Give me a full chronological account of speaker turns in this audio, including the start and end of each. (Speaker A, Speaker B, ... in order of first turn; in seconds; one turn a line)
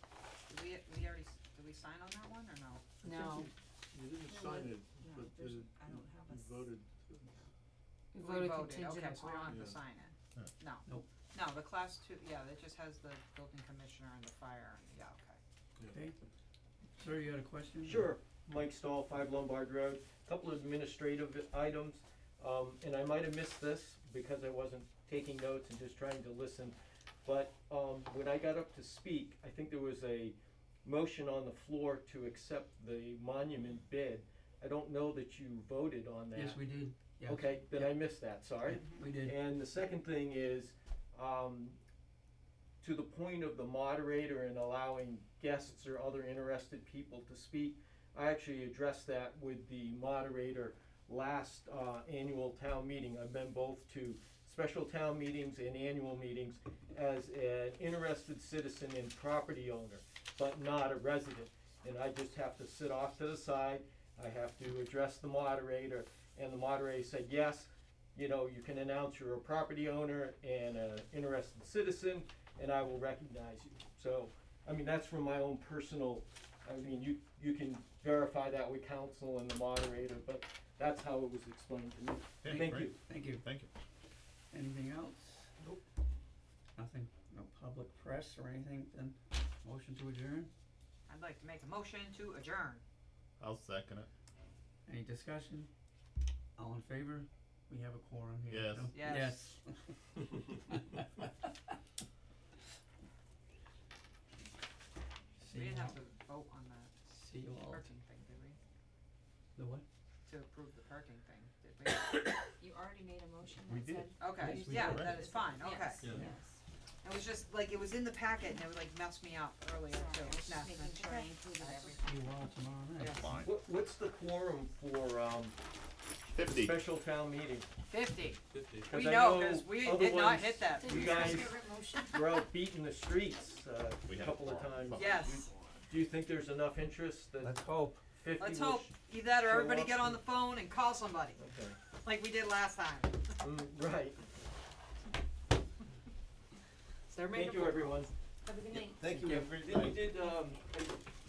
Speaker A: 0.5-3.1
Speaker B: 3.0-3.5
Speaker C: 3.9-7.5
Speaker B: 4.2-6.7
Speaker B: 8.1-9.6
Speaker A: 8.2-15.4
Speaker C: 9.4-9.8
Speaker D: 15.9-16.1
Speaker D: 17.0-18.1
Speaker E: 17.8-36.6
Speaker D: 36.4-39.4
Speaker E: 37.2-41.8
Speaker E: 42.8-83.0
Speaker F: 82.4-83.7
Speaker D: 82.5-83.5
Speaker D: 84.5-85.5
Speaker D: 86.8-90.5
Speaker A: 91.1-92.8
Speaker F: 93.4-94.1
Speaker D: 94.9-95.7
Speaker D: 96.6-101.1
Speaker F: 98.5-99.0
Speaker A: 98.9-99.5
Speaker D: 105.4-106.0
Speaker A: 105.5-108.6
Speaker D: 107.1-107.8
Speaker D: 109.6-109.8
Speaker A: 110.3-112.4
Speaker B: 112.6-116.6
Speaker F: 113.7-115.2
Speaker A: 114.2-116.2
Speaker D: 114.4-114.9
Speaker D: 116.0-116.4
Speaker A: 117.0-122.0
Speaker B: 119.9-122.0
Speaker D: 122.0-123.2
Speaker A: 123.0-123.3
Speaker F: 123.1-123.5
Speaker E: 123.3-125.6
Speaker F: 126.3-126.8
Speaker E: 126.5-127.7
Speaker A: 127.9-132.2
Speaker C: 128.5-128.9
Speaker E: 128.8-135.3
Speaker B: 130.7-132.2
Speaker F: 134.1-135.8
Speaker A: 134.9-135.5
Speaker E: 135.9-140.2
Speaker D: 137.4-138.1
Speaker A: 138.4-141.4
Speaker E: 141.4-141.8
Speaker A: 142.0-143.4
Speaker E: 143.4-144.2
Speaker A: 147.1-148.1
Speaker E: 147.3-148.1
Speaker B: 148.4-149.0
Speaker E: 148.7-151.1
Speaker D: 149.1-149.5
Speaker F: 149.5-149.9